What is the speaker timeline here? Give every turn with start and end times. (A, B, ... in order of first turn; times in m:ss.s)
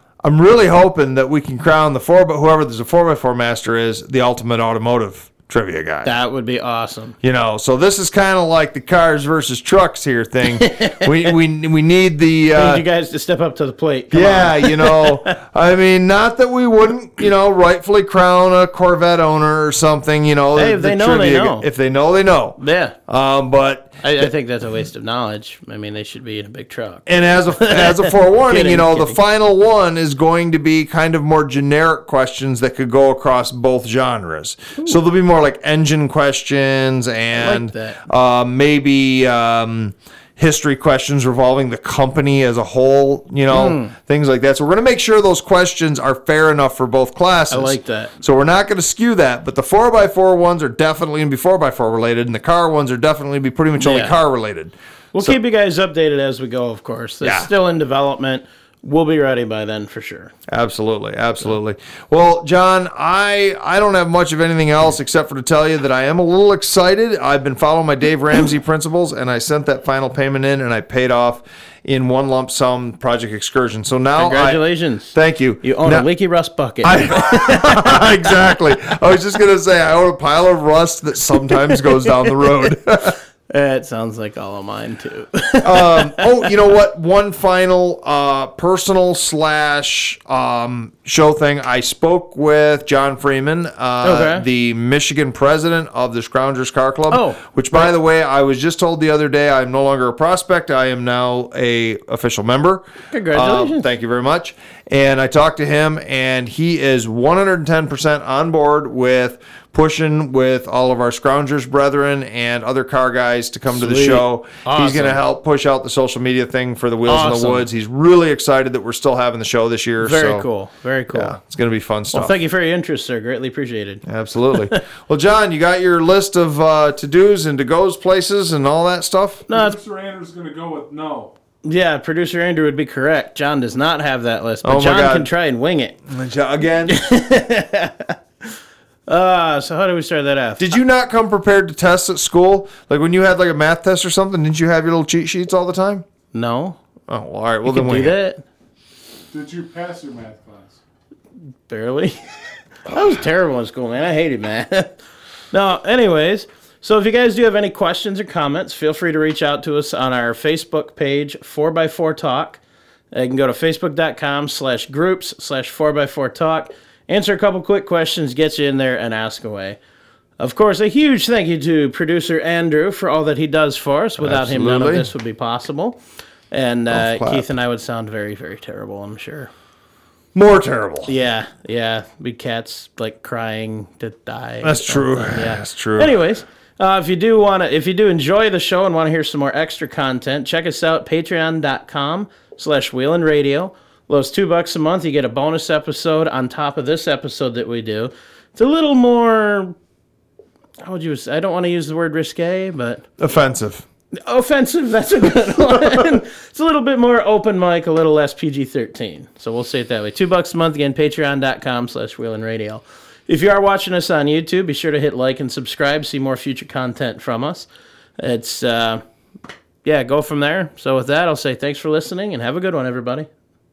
0:00.2-0:06.2 A
0:06.0-0:07.2 B
0:07.2-0:12.8 A
0:10.4-0:11.4 B
0:12.5-0:15.4 B
0:14.1-0:24.2 A
0:20.5-0:21.7 B
0:22.6-0:23.0 B
0:24.0-0:29.2 B
0:27.0-0:55.4 A
0:37.3-0:38.0 B
0:43.5-0:43.9 B
0:47.5-0:48.1 B
0:53.8-0:54.2 B
0:55.1-1:00.3 B
0:57.2-0:57.5 A
1:00.5-1:16.1 A
1:14.2-1:18.3 B
1:16.8-1:23.2 A
1:21.5-1:22.7 B
1:23.5-1:26.5 B
1:25.6-2:00.4 A
1:34.0-1:34.4 B
1:37.1-1:37.9 B
1:43.1-1:43.9 B
1:53.7-1:55.2 B
1:57.0-1:57.7 B
2:00.0-2:01.4 B
2:01.1-2:02.3 A
2:02.1-2:04.8 B
2:04.0-2:09.4 A
2:09.5-2:09.8 B
2:09.5-2:11.3 C
2:11.6-2:16.0 B
2:14.6-2:15.3 A
2:16.1-2:17.0 A
2:16.9-2:18.5 B
2:19.1-2:20.8 B
2:20.6-2:26.0 A
2:26.3-2:26.8 B
2:27.1-2:28.2 A
2:27.6-2:28.4 B
2:29.3-2:30.8 C
2:31.7-2:32.2 B
2:32.8-2:35.0 B
2:35.5-2:42.6 B
2:43.1-2:49.8 B
2:50.4-2:56.0 B
2:54.2-2:55.1 A
2:56.5-2:59.5 B
2:56.9-2:57.5 A
3:00.3-3:01.1 A
3:01.1-3:19.8 B
3:04.6-3:06.1 A
3:20.8-3:23.0 B
3:23.2-3:23.8 A
3:24.1-3:37.7 B
3:38.2-3:39.0 B
3:39.8-3:43.3 B